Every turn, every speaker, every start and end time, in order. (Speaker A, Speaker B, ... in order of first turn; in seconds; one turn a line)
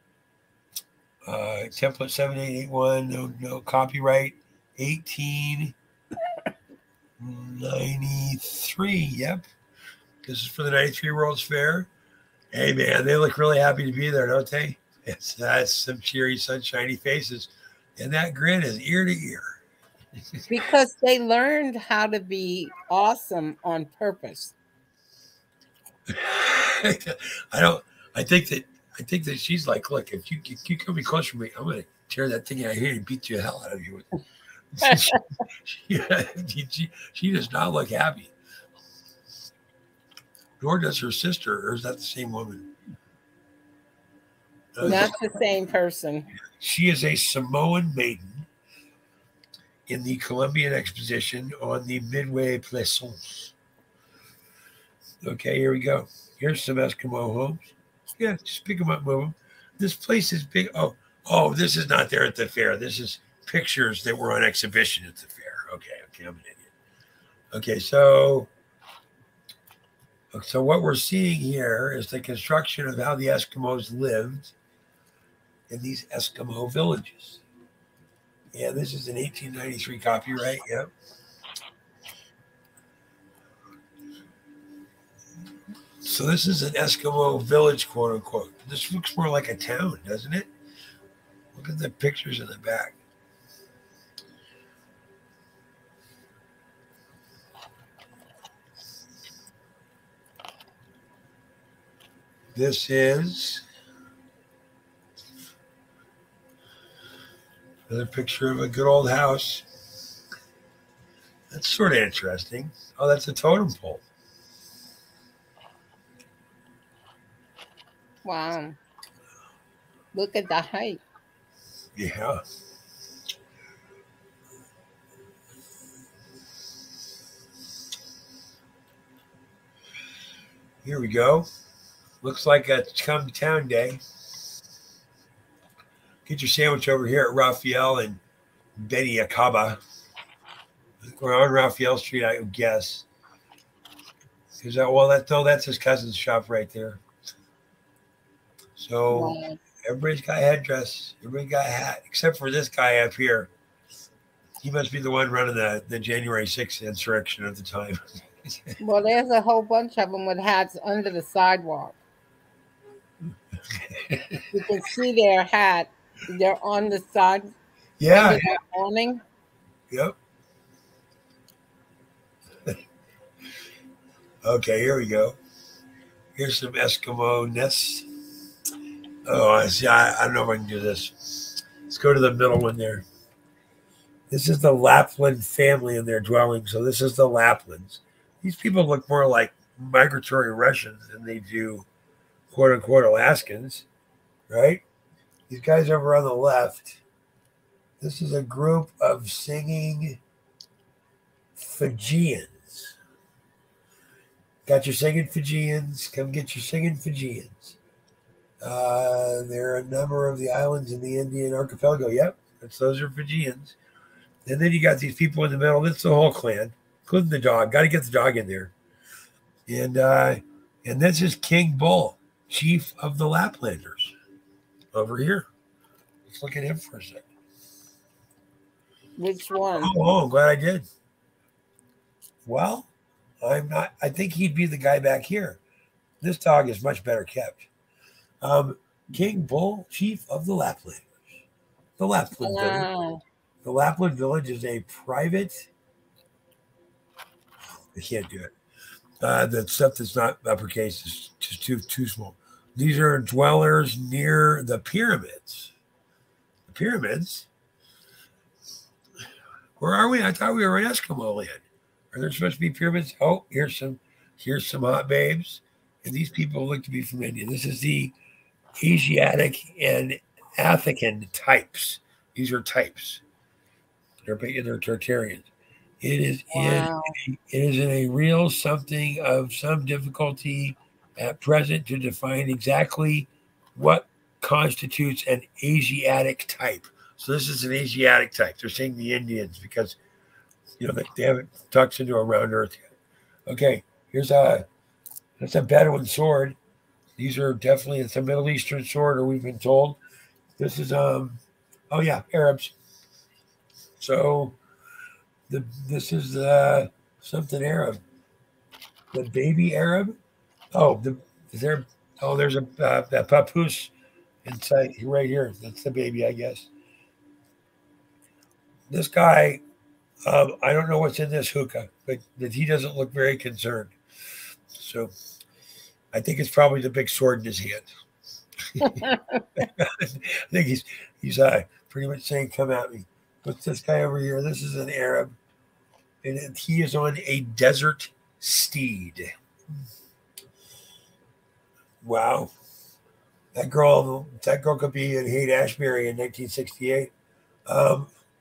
Speaker A: 1.2-5.8
Speaker A: 7.2-9.4
Speaker A: 10.2-11.9
Speaker A: 12.5-19.6
Speaker B: 20.5-24.6
Speaker A: 26.1-34.1
Speaker A: 34.8-38.3
Speaker B: 34.8-35.2
Speaker A: 40.6-42.7
Speaker A: 44.8-45.1
Speaker B: 44.8-46.3
Speaker A: 46.6-48.5
Speaker A: 49.9-53.5
Speaker A: 55.2-66.7
Speaker A: 67.5-68.5
Speaker A: 70.3-74.5
Speaker A: 75.7-77.4
Speaker A: 78.5-80.9
Speaker A: 86.0-90.5
Speaker A: 91.5-93.0
Speaker A: 102.5-103.7
Speaker A: 107.9-109.7
Speaker A: 111.5-114.0
Speaker B: 118.2-118.8
Speaker B: 120.1-121.0
Speaker A: 122.0-122.4
Speaker A: 130.8-131.5
Speaker A: 132.2-134.0
Speaker A: 136.3-138.2
Speaker A: 138.8-139.8
Speaker A: 141.0-143.1
Speaker A: 144.6-147.0
Speaker A: 148.8-153.5
Speaker B: 149.1-149.6
Speaker A: 154.6-158.0
Speaker B: 158.8-162.0
Speaker A: 163.7-164.5
Speaker B: 164.5-167.5
Speaker A: 168.0-168.5
Speaker B: 168.2-169.2
Speaker A: 174.4-175.4
Speaker A: 176.3-178.0
Speaker A: 179.3-183.0
Speaker A: 184.3-191.8
Speaker A: 192.5-193.8
Speaker A: 194.5-194.8
Speaker A: 195.5-197.0
Speaker A: 198.0-200.2
Speaker A: 201.6-202.9
Speaker A: 204.7-207.8
Speaker A: 208.6-213.8
Speaker A: 214.5-218.7
Speaker A: 219.7-224.2
Speaker A: 224.9-225.5
Speaker A: 226.3-227.3
Speaker B: 229.2-230.0
Speaker A: 229.8-230.8
Speaker A: 232.4-232.9
Speaker A: 233.4-235.6
Speaker A: 236.2-237.7
Speaker A: 238.4-241.1
Speaker A: 242.0-242.9
Speaker B: 242.4-243.2
Speaker A: 243.6-245.7
Speaker A: 248.0-248.5
Speaker A: 249.2-255.7
Speaker A: 256.7-257.5
Speaker A: 259.8-268.1
Speaker A: 268.8-273.2
Speaker A: 274.2-275.5
Speaker A: 276.0-290.0
Speaker B: 276.5-277.1
Speaker A: 290.8-292.8
Speaker A: 293.5-294.6
Speaker A: 295.4-296.6
Speaker A: 297.2-300.0
Speaker A: 300.6-302.7
Speaker A: 304.0-304.6
Speaker A: 305.5-308.0
Speaker A: 309.1-310.1
Speaker A: 310.7-313.9
Speaker A: 314.4-316.7
Speaker A: 318.9-319.6
Speaker A: 320.2-323.9
Speaker A: 324.8-325.1
Speaker A: 326.1-327.9
Speaker A: 328.7-329.1
Speaker B: 328.8-329.6
Speaker A: 329.6-335.4
Speaker A: 336.2-339.3
Speaker A: 342.0-342.5
Speaker A: 343.5-347.1
Speaker A: 347.6-348.1